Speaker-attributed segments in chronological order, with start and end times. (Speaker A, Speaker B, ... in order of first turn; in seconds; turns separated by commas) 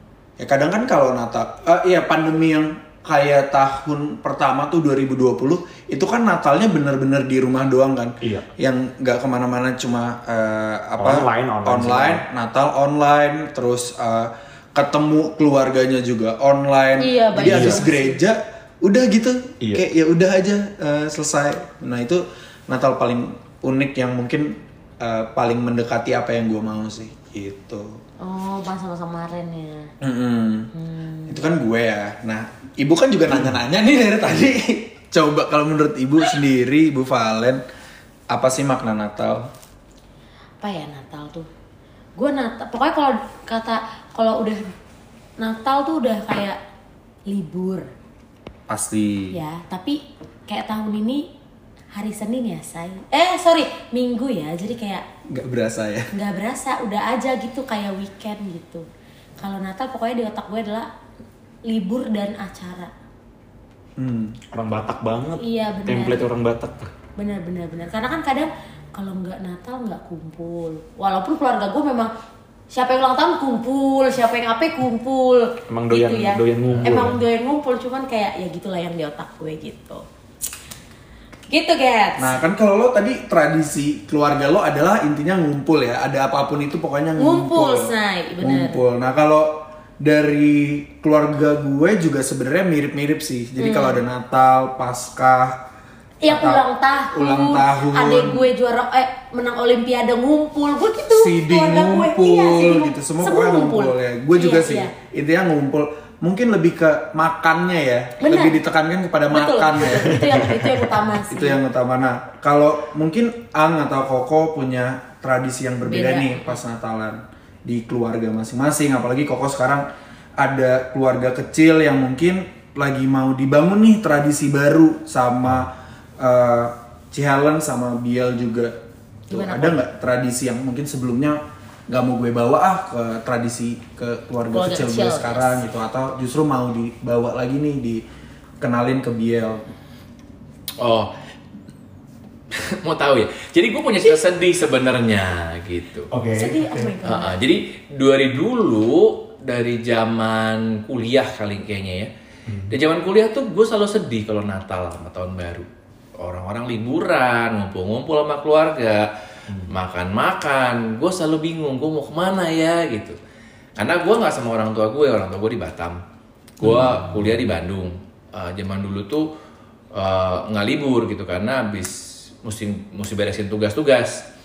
Speaker A: 0.4-28.0, Speaker B: 8.2-8.5, Speaker B: 11.0-12.2, Speaker C: 17.0-18.2, Speaker B: 17.4-17.8, Speaker C: 28.2-29.9, Speaker A: 30.0-30.7, Speaker C: 30.7-31.4, Speaker A: 31.3-37.6, Speaker A: 38.3-39.5, Speaker C: 40.6-41.5, Speaker C: 42.1-44.7, Speaker C: 45.4-46.6, Speaker C: 47.3-47.9, Speaker A: 48.7-49.4, Speaker C: 49.3-51.3, Speaker C: 51.9-55.0, Speaker A: 55.3-56.1, Speaker C: 56.1-58.9, Speaker C: 59.4-60.9, Speaker C: 61.6-62.9, Speaker A: 64.0-64.4, Speaker B: 64.5-66.9, Speaker C: 65.4-66.2, Speaker C: 67.2-72.1, Speaker C: 72.7-80.0, Speaker B: 75.7-77.2, Speaker C: 81.5-82.4, Speaker A: 82.2-95.6, Speaker C: 87.2-88.8, Speaker C: 93.6-94.0, Speaker C: 96.2-104.9, Speaker A: 96.2-98.4, Speaker A: 101.1-110.7, Speaker C: 108.2-108.6, Speaker C: 109.3-111.6, Speaker A: 111.3-128.8, Speaker C: 115.9-116.5, Speaker C: 129.3-129.8, Speaker A: 129.3-138.0, Speaker C: 134.5-135.6, Speaker A: 138.6-139.7, Speaker D: 140.8-141.1, Speaker D: 142.5-146.1, Speaker B: 146.1-146.9, Speaker C: 146.4-147.3, Speaker D: 147.0-152.1, Speaker B: 152.5-152.7, Speaker D: 152.7-155.7, Speaker D: 156.2-159.1, Speaker D: 159.7-163.2, Speaker D: 163.8-166.0, Speaker D: 166.6-169.3, Speaker B: 166.6-167.5, Speaker D: 169.9-174.2